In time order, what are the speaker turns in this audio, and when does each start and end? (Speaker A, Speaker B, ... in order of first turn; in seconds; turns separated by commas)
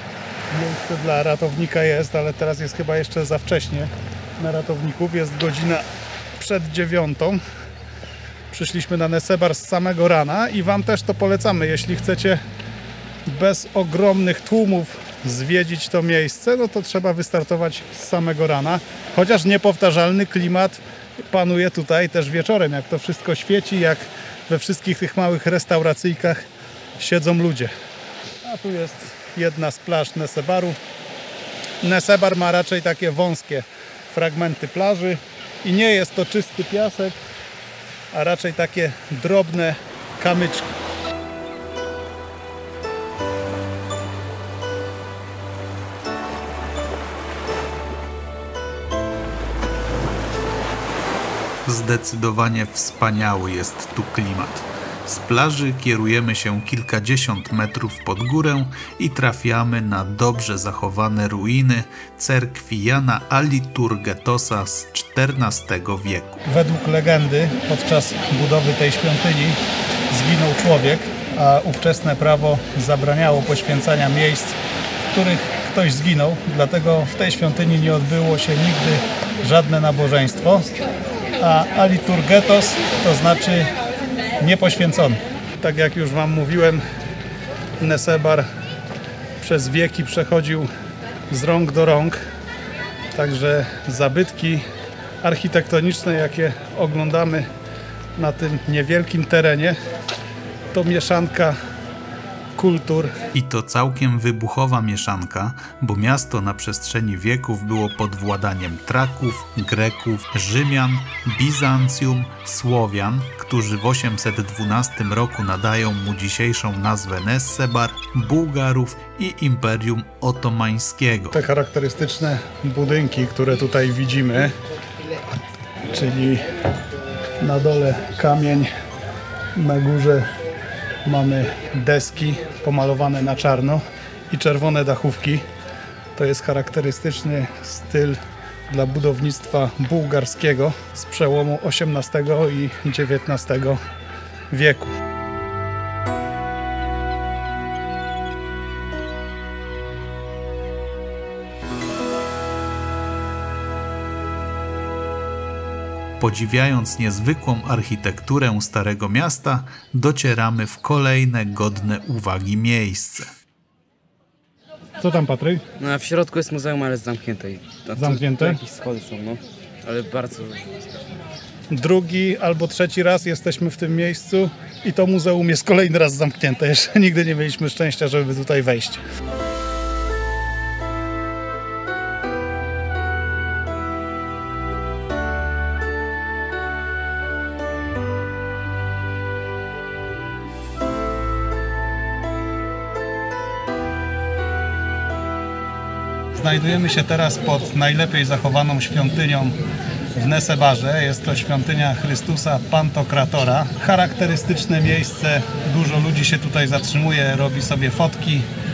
Speaker A: 0.5-5.9, Speaker A: 6.4-7.4, Speaker A: 8.5-12.4, Speaker A: 13.3-26.4, Speaker A: 27.0-27.7, Speaker A: 28.4-30.8, Speaker A: 31.8-37.2, Speaker A: 38.1-40.8, Speaker B: 51.7-66.4, Speaker A: 66.5-74.6, Speaker A: 75.1-80.7, Speaker A: 81.4-83.7, Speaker A: 84.4-86.8, Speaker A: 87.8-88.5, Speaker A: 89.4-90.7, Speaker A: 91.3-92.2, Speaker A: 93.1-94.7, Speaker A: 95.2-97.5, Speaker A: 98.2-99.8, Speaker A: 100.7-101.6, Speaker A: 102.5-103.2, Speaker B: 103.3-121.4, Speaker A: 121.3-124.5, Speaker A: 125.9-126.5, Speaker A: 127.4-128.7, Speaker A: 129.6-130.3, Speaker A: 131.1-135.5, Speaker A: 136.2-143.8, Speaker A: 144.5-144.9, Speaker B: 156.2-163.3, Speaker A: 165.0-165.6, Speaker C: 165.8-170.7, Speaker A: 168.0-168.6, Speaker A: 171.7-179.0, Speaker A: 196.3-199.6, Speaker A: 200.2-208.5